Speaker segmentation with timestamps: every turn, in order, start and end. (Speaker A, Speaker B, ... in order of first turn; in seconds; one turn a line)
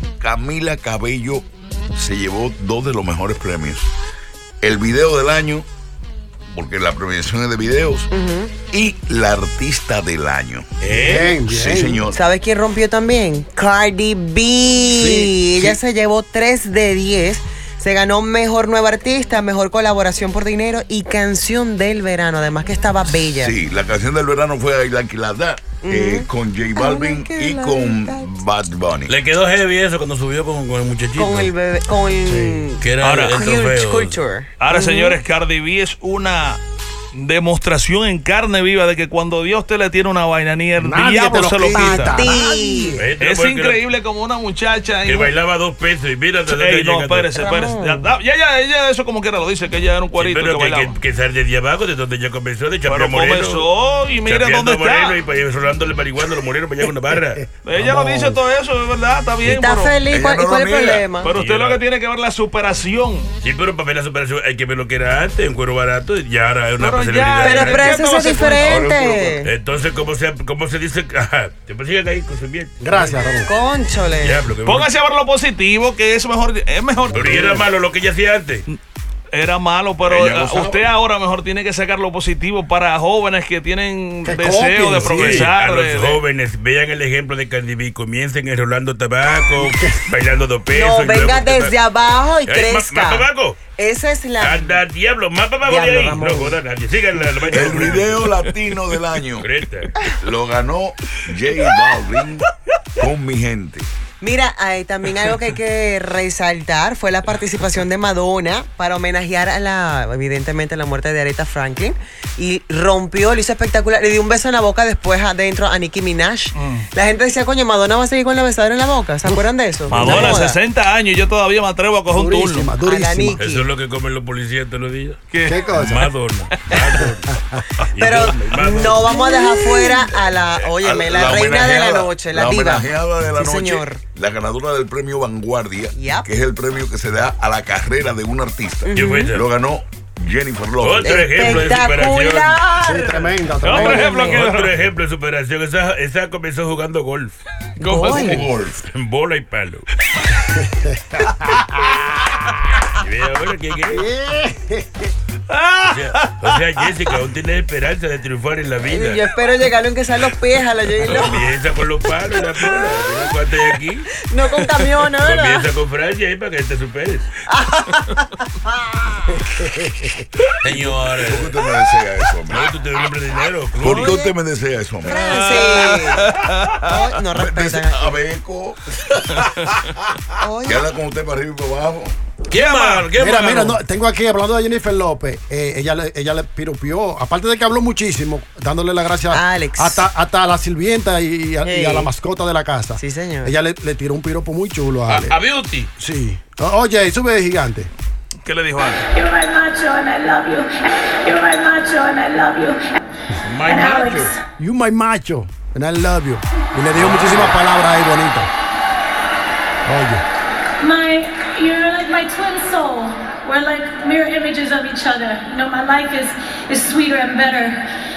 Speaker A: 0.2-3.9
Speaker A: 4.6-5.7
Speaker A: 6.5-8.1
Speaker B: 8.1-8.6
Speaker A: 8.6-10.7
Speaker C: 10.8-11.4
Speaker D: 10.9-12.0
Speaker A: 11.3-12.2
Speaker B: 12.1-23.6
Speaker C: 15.0-15.4
Speaker A: 23.4-29.2
Speaker B: 25.8-28.4
Speaker C: 29.1-31.5
Speaker B: 31.1-35.2
Speaker D: 32.3-32.6
Speaker C: 32.8-34.2
Speaker E: 33.0-33.5
Speaker E: 34.6-36.6
Speaker E: 37.1-42.2
Speaker D: 40.8-43.1
Speaker B: 41.6-43.0
Speaker C: 43.0-43.8
Speaker E: 43.2-45.3
Speaker C: 45.0-47.5
Speaker E: 46.5-51.0
Speaker B: 47.4-48.1
Speaker C: 50.2-53.7
Speaker E: 52.9-55.2
Speaker C: 54.2-57.5
Speaker D: 57.3-58.4
Speaker E: 57.6-60.0
Speaker B: 59.4-61.3
Speaker A: 60.1-61.1
Speaker E: 61.2-63.3
Speaker C: 61.2-61.8
Speaker C: 63.4-68.0
Speaker E: 66.8-68.9
Speaker B: 67.4-69.5
Speaker A: 68.5-69.4
Speaker C: 69.4-73.2
Speaker D: 72.8-73.5
Speaker B: 73.4-74.5
Speaker C: 74.2-74.9
Speaker E: 74.7-77.6
Speaker C: 77.1-78.7
Speaker D: 77.2-77.7
Speaker E: 79.3-86.2
Speaker A: 80.0-80.9
Speaker D: 84.2-85.5
Speaker C: 85.0-91.8
Speaker D: 89.6-90.0
Speaker B: 90.7-94.8
Speaker C: 92.5-93.6
Speaker C: 94.4-98.4
Speaker B: 95.6-96.6
Speaker D: 97.3-98.0
Speaker A: 97.5-99.5
Speaker C: 99.4-100.0
Speaker A: 100.1-102.4
Speaker A: 103.0-103.9
Speaker B: 104.2-120.6
Speaker E: 116.5-116.9
Speaker E: 119.9-122.7
Speaker D: 120.0-120.4
Speaker D: 122.1-123.4
Speaker B: 122.8-123.7
Speaker C: 123.4-125.2
Speaker E: 125.3-125.7
Speaker D: 125.5-126.1
Speaker C: 125.7-129.2
Speaker E: 126.5-126.8
Speaker D: 127.0-127.6
Speaker B: 128.0-134.0
Speaker A: 130.4-141.1
Speaker B: 135.9-136.3
Speaker B: 138.8-139.3
Speaker C: 138.9-139.4
Speaker C: 140.8-142.7
Speaker B: 141.0-143.2
Speaker D: 142.8-144.4
Speaker E: 143.6-144.8
Speaker C: 143.7-147.4
Speaker B: 143.9-144.4
Speaker B: 147.8-148.5
Speaker A: 147.8-148.8
Speaker D: 148.1-148.4
Speaker C: 148.8-149.9
Speaker D: 150.5-152.0
Speaker C: 153.0-154.0
Speaker D: 153.9-155.1
Speaker E: 155.5-156.9
Speaker C: 155.9-159.3
Speaker B: 158.8-161.5
Speaker C: 161.1-164.1
Speaker B: 162.5-163.3
Speaker B: 164.3-165.7
Speaker C: 165.2-167.4
Speaker B: 167.5-169.6
Speaker D: 169.6-170.1
Speaker C: 170.6-171.6
Speaker A: 170.7-172.7
Speaker C: 172.5-174.1
Speaker A: 173.8-175.9
Speaker B: 173.9-174.3
Speaker B: 175.0-178.2
Speaker E: 175.1-176.9
Speaker A: 177.2-182.2
Speaker E: 179.3-179.8
Speaker B: 180.4-180.9
Speaker C: 182.5-183.8
Speaker E: 182.5-183.1
Speaker D: 183.2-195.4
Speaker B: 189.3-190.1
Speaker B: 191.6-192.1
Speaker B: 193.0-193.6
Speaker C: 195.1-195.9
Speaker D: 196.0-197.9
Speaker E: 198.4-199.1
Speaker F: 199.1-203.0
Speaker C: 203.4-204.3
Speaker F: 203.6-204.4
Speaker D: 204.6-208.5
Speaker E: 207.0-207.6
Speaker D: 209.9-210.2
Speaker F: 210.8-217.8